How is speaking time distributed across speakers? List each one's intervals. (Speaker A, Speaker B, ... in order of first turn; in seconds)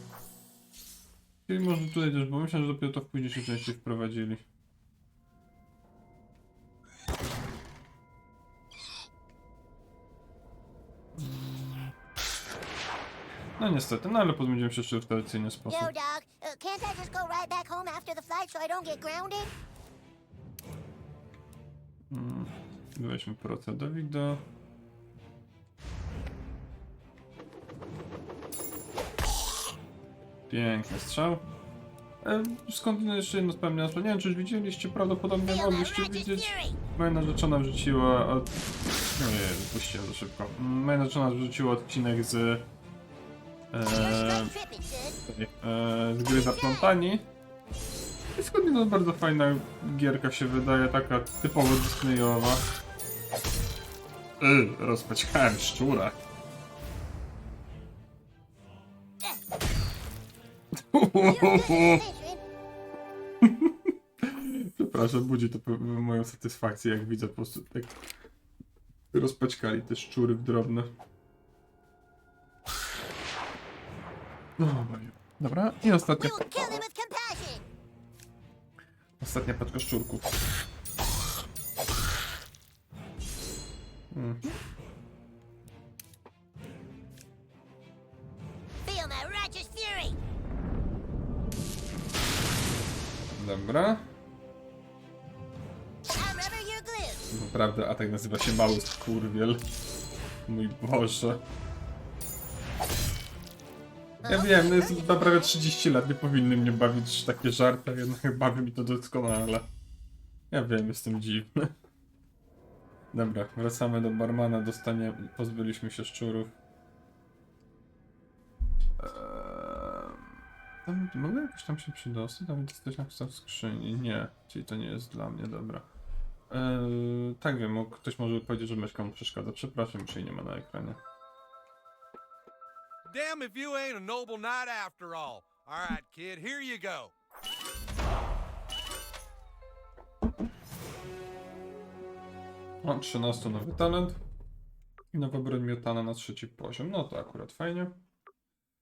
Speaker A: 1.5-4.4, 11.2-11.9, 13.6-15.9, 22.1-24.4, 30.5-31.5, 32.2-38.5, 39.2-42.7, 43.7-44.5, 45.3-47.3, 48.4-52.6, 54.4-56.2, 60.8-62.0, 63.4-68.0, 69.1-70.9, 74.6-76.4, 79.2-80.3, 84.1-84.5, 93.4-94.1, 97.3-99.6, 100.5-101.4, 104.2-109.7, 110.5-111.7, 113.1-116.5, 119.0-120.3, 120.8-125.9, 126.5-131.0, 142.8-144.2, 145.1-148.0
Speaker B: 15.7-19.5, 35.5-36.8, 43.9-45.2, 46.3-46.9, 61.2-62.4, 76.0-77.6, 88.8-90.2, 96.0-97.3, 104.2-105.5
Speaker C: 133.1-137.1